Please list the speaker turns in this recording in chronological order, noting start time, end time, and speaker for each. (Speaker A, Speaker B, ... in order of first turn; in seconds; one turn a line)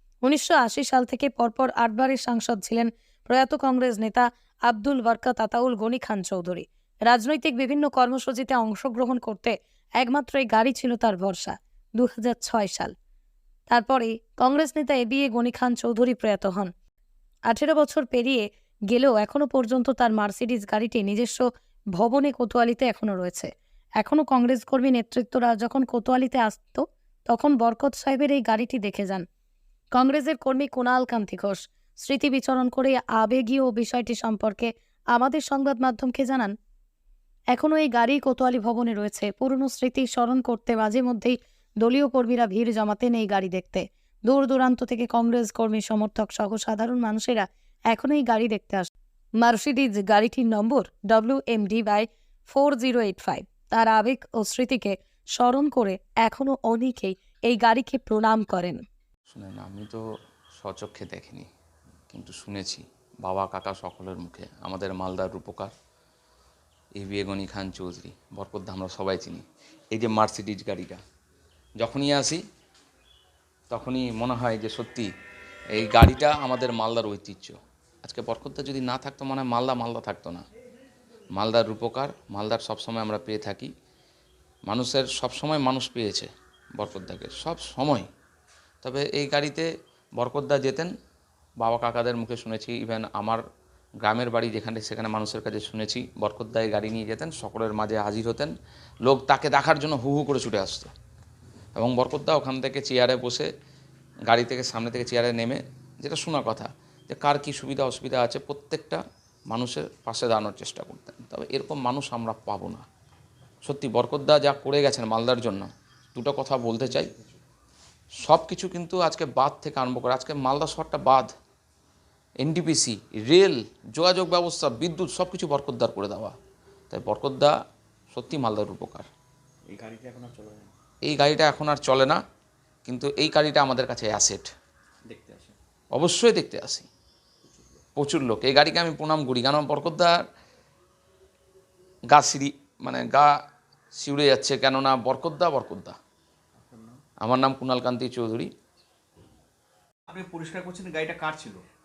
Speaker A: 0.2-12.9
Speaker A: 13.7-16.7
Speaker A: 17.5-23.5
Speaker A: 24.0-29.2
Speaker A: 29.9-36.5
Speaker A: 37.5-48.9
Speaker A: 49.4-58.8
Speaker B: 59.3-60.0
Speaker B: 60.6-61.5
Speaker B: 62.1-65.7
Speaker B: 67.0-71.0
Speaker B: 71.8-72.4
Speaker B: 73.7-75.1
Speaker B: 75.7-80.5
Speaker B: 81.4-83.7
Speaker B: 84.7-88.1
Speaker B: 88.8-90.9
Speaker B: 91.6-93.4
Speaker B: 94.0-98.5
Speaker B: 99.0-100.9
Speaker B: 101.8-103.5
Speaker B: 104.3-112.8
Speaker B: 113.7-117.1
Speaker B: 118.2-121.3
Speaker B: 122.4-126.3
Speaker B: 126.9-127.5
Speaker B: 128.1-129.1
Speaker C: 129.7-130.7
Speaker B: 131.0-132.2
Speaker B: 132.9-134.5
Speaker C: 135.1-135.6
Speaker B: 135.9-136.9
Speaker C: 137.4-137.8
Speaker B: 138.0-140.2
Speaker B: 142.1-143.3
Speaker B: 144.0-146.0
Speaker C: 146.6-147.0
Speaker B: 147.2-148.5
Speaker C: 150.1-151.6